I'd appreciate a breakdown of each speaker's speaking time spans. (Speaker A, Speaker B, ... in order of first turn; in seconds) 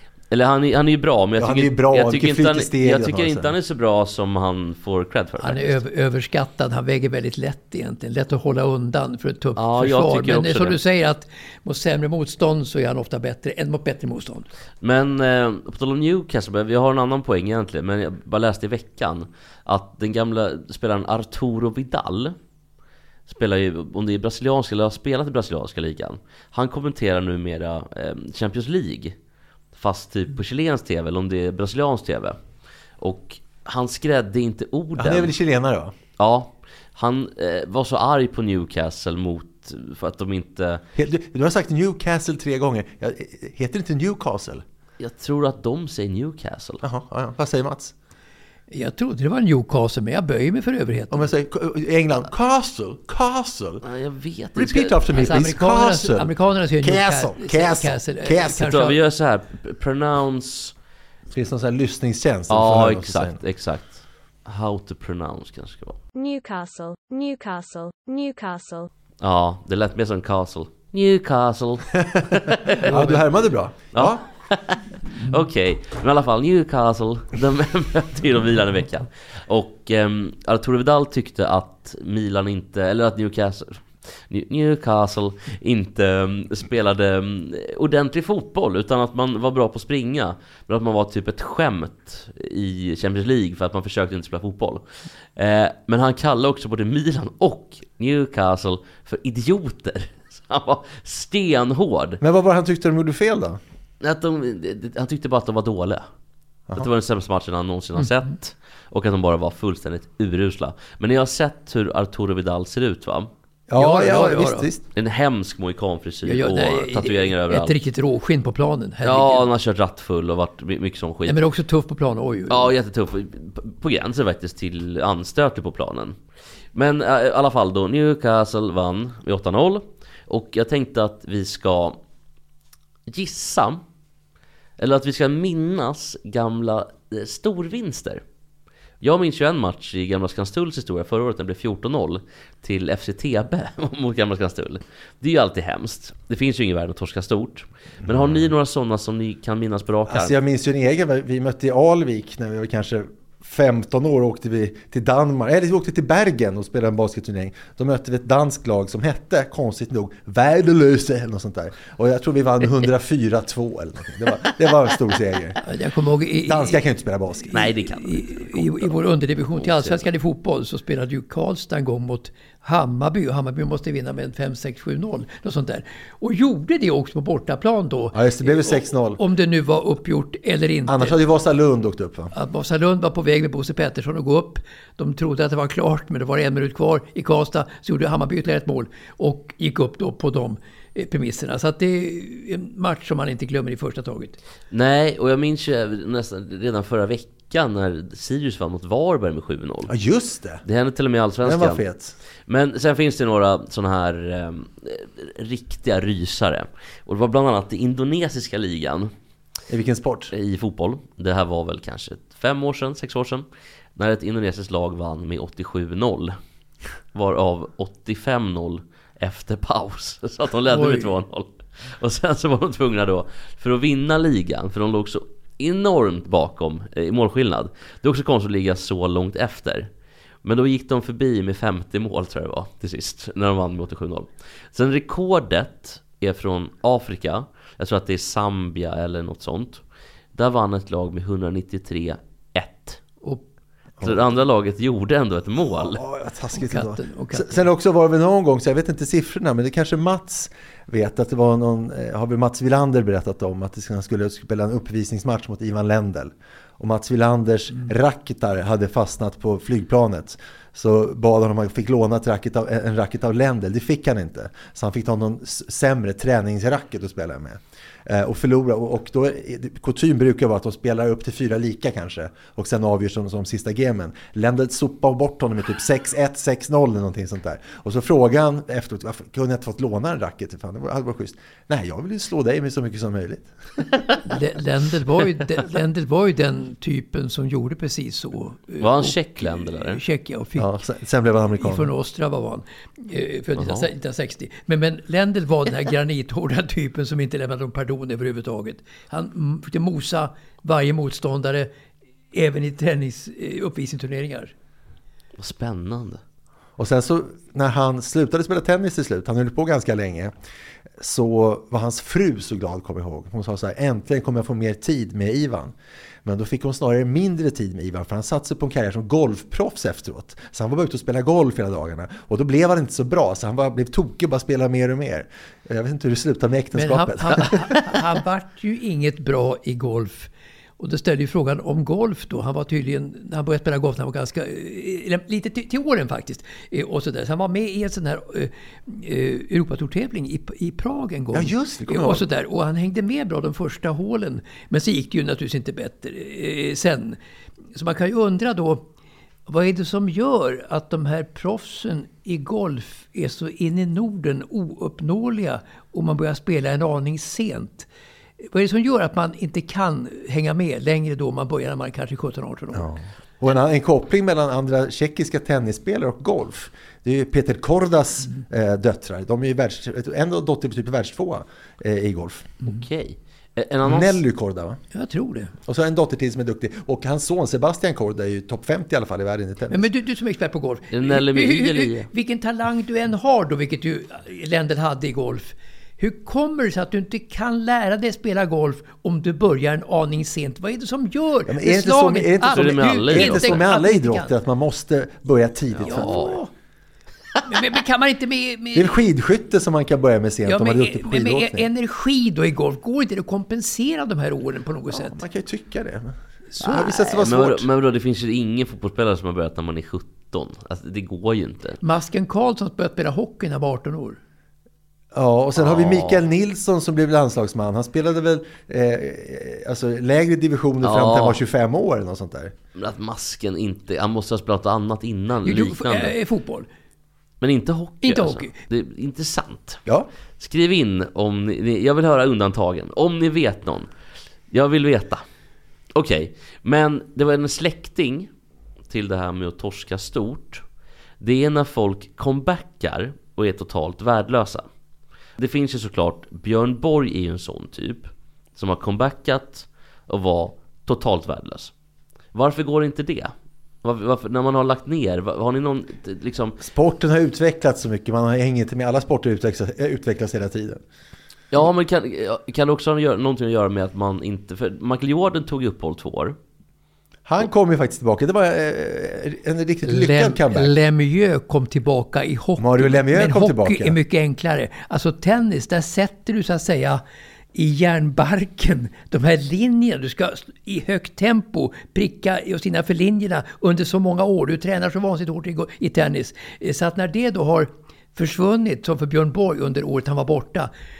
Speaker A: 0.3-5.7, 9.6-10.8, 14.8-22.4, 23.3-29.1, 29.7-32.4, 33.0-35.3, 36.2-40.8, 45.0-46.8, 53.8-55.0, 58.5-60.7, 62.5-66.0, 69.2-73.2, 73.9-102.2, 104.0-106.0, 106.8-113.3, 114.9-117.7, 119.0-121.4, 122.5-126.2, 126.7-132.0, 133.1-133.8, 134.8-138.2, 139.0-150.3, 167.5-168.9, 169.5-170.0, 194.7-199.9, 200.6-201.8, 202.5-209.1, 210.3-216.3, 217.1-229.9, 230.4-239.8, 240.3-243.0, 244.0-246.0, 288.8-290.0, 293.6-293.9, 305.4-306.2, 372.6-374.2, 380.9-382.1, 392.5-393.6, 395.8-396.3, 406.6-411.8, 415.6-416.2, 420.8-421.4, 422.8-426.1, 427.4-429.8, 430.4-433.9, 434.5-435.2, 435.9-438.3, 438.9-440.6, 441.2-444.6, 445.4-451.7, 452.3-456.6, 461.5-466.4
Speaker B: 1.4-3.5, 35.0-35.9, 41.0-44.6, 46.8-47.9, 51.1-53.8, 54.5-58.7, 61.3-63.4, 72.8-74.2, 102.2-103.6, 113.7-114.8, 148.0-148.5, 150.1-165.6, 166.4-167.5, 178.1-179.2, 180.9-182.3, 199.9-200.6, 201.4-202.2, 209.7-210.3, 245.7-284.0, 290.6-291.9, 306.8-310.3, 311.0-315.7, 316.2-327.8, 341.3-342.2, 362.7-372.5, 373.8-374.8, 375.6-379.9, 391.4-396.4, 398.7-401.7, 404.9-407.7, 415.1-422.5, 456.6-460.8, 467.2-470.7, 472.6-474.0
Speaker C: 5.4-14.5, 48.7-51.3, 55.1-59.0, 113.8-114.7, 116.2-119.4, 121.2-122.7, 165.6-166.8, 167.5-181.2, 182.3-194.4, 220.7-221.1, 246.6-247.7, 284.2-290.7, 291.6-301.7, 302.3-304.5, 326.7-347.2, 347.7-348.9, 349.5-357.9, 358.4-362.9, 374.9-375.5, 379.7-394.3, 395.8-396.5, 397.5-399.0, 400.4-405.2, 406.5-406.9, 411.8-414.2, 425.4-426.7, 428.0-428.5, 469.8-477.0, 477.5-490.7
Speaker D: 66.1-68.9